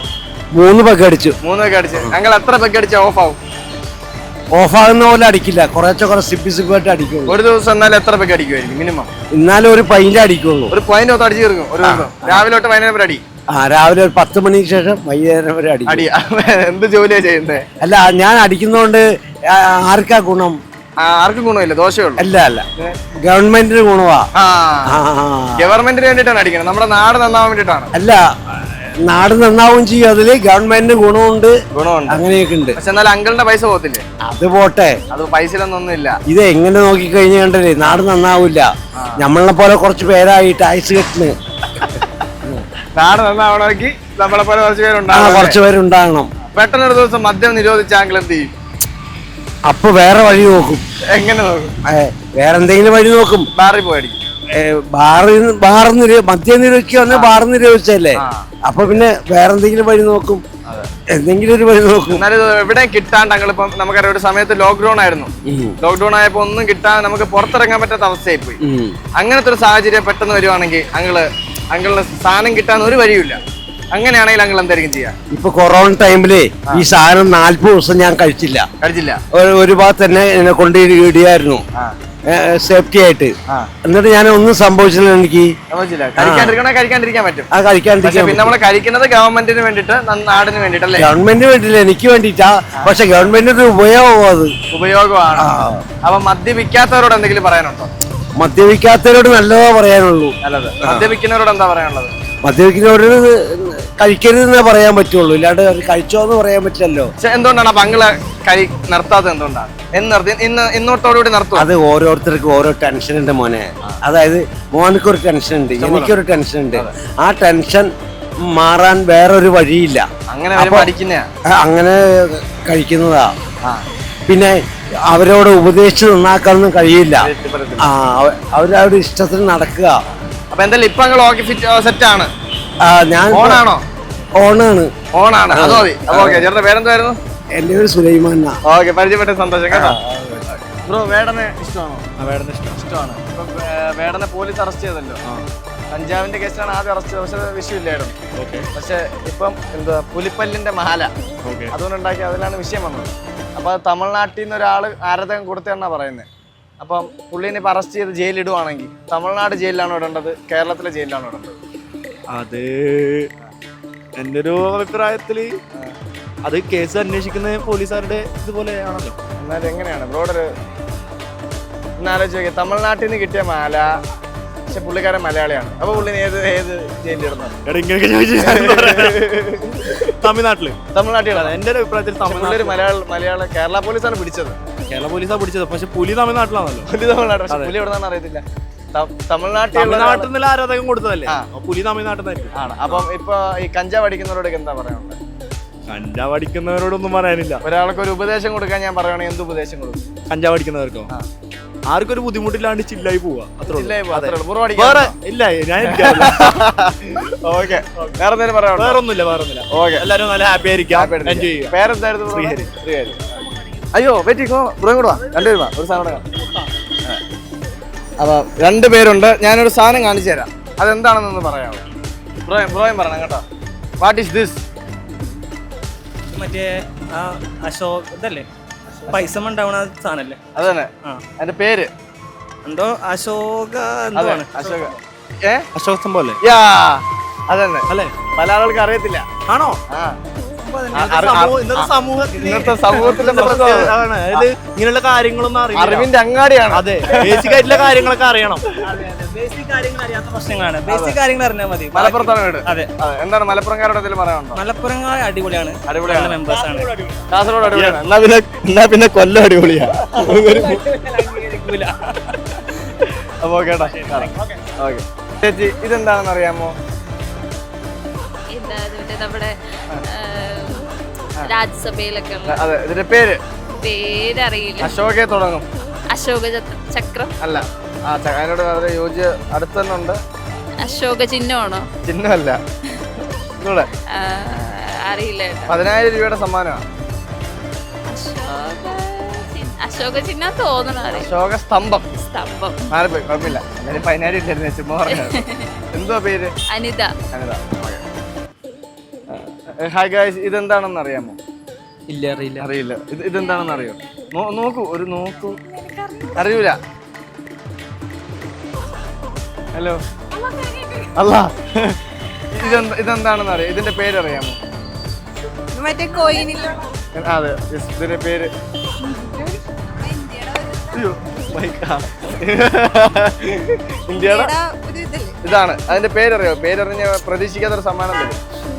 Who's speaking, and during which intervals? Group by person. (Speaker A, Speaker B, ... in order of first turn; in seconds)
Speaker A: 0.5-1.4, 4.5-7.4, 9.3-10.8, 11.8-12.4, 13.5-16.1, 17.8-20.6, 22.2-22.6, 23.2-24.3, 24.9-25.8, 27.9-28.3, 29.1-31.5, 32.1-32.8, 34.2-35.0, 36.3-41.3, 45.1-46.3, 49.6-50.8, 51.9-53.5, 54.5-60.4, 61.1-62.2, 65.4-65.7, 68.6-69.0, 75.3-78.7, 79.3-81.6, 82.3-83.3, 83.8-85.5, 86.2-86.6, 87.5-88.5, 91.0-94.5, 95.4-95.8, 98.4-101.1, 102.4-107.1, 111.5-117.9, 118.4-120.9, 121.5-123.3, 124.3-124.5, 125.1-130.0, 132.8-133.6, 134.4-134.9, 135.5-136.5, 137.5-138.6
Speaker B: 1.4-3.4, 7.3-9.1, 10.7-13.2, 15.9-17.6, 21.0-22.2, 24.4-25.0, 25.6-27.9, 31.7-32.2, 32.8-34.0, 35.1-36.2, 39.0-39.2, 42.9-45.6, 46.5-48.5, 51.1-51.7, 53.5-54.2, 57.1-57.4, 58.1-58.5, 60.6-60.9, 62.1-65.3, 65.8-68.6, 69.2-73.4, 73.9-75.1, 78.8-79.2, 85.7-87.5, 88.0-91.1, 94.7-95.5, 96.0-97.9, 100.4-102.2, 107.2-111.7, 115.8-116.1, 120.3-121.3, 127.2-127.9, 130.5-132.3, 133.3-133.8, 135.1-137.2, 138.6-140.0, 140.5-142.0, 142.7-145.2, 145.9-148.2, 148.7-151.1, 151.7-156.3, 156.8-161.6, 169.4-170.5, 172.0-173.9, 174.7-177.5, 178.4-180.1, 180.9-181.5, 182.2-184.6, 186.9-190.3, 192.5-195.2, 197.6-200.0, 203.7-205.2, 205.8-209.0, 209.7-210.1, 210.9-213.4, 213.9-216.2, 218.2-221.8, 222.4-223.4, 224.0-224.6, 229.0-229.4, 230.5-231.9, 234.1-235.7, 236.4-239.2, 239.9-240.2, 240.9-244.4, 245.7-247.8, 250.9-251.2, 251.9-254.6, 255.9-256.4, 257.3-260.9, 263.4-266.7, 272.5-273.4, 274.8-275.6, 277.4-280.2, 282.1-282.6, 283.6-283.9, 285.7-286.8, 291.1-292.1, 292.9-295.4, 295.9-296.5, 297.3-298.0, 299.3-301.4, 302.6-305.6, 306.3-306.8, 311.1-312.0, 312.5-314.6, 317.1-318.5, 320.9-324.5, 325.4-328.4
Speaker C: 142.2-142.8, 148.4-148.7, 151.4-151.7, 162.3-163.3, 164.2-165.6, 166.4-169.2, 177.6-179.3, 179.8-180.8, 181.3-182.8, 184.9-186.9, 189.7-192.6, 195.9-197.6, 200.3-201.1, 201.9-206.7, 208.8-211.7, 212.3-212.7, 233.7-234.2, 235.8-236.4, 239.5-239.8, 240.7-246.1, 246.7-248.6
Speaker D: 226.3-226.6, 227.7-228.4, 229.3-230.3, 232.7-233.6, 234.2-234.9, 249.3-252.0, 256.2-256.6, 261.2-261.8
Speaker E: 229.3-229.6, 250.2-251.4, 254.6-256.9, 268.5-270.9, 271.4-272.7, 273.8-274.9, 276.1-277.4, 280.8-281.9, 284.1-285.8, 288.1-291.3, 292.1-292.9, 295.3-295.7, 296.7-297.1
Speaker F: 315.8-316.7, 319.9-320.9, 324.2-325.4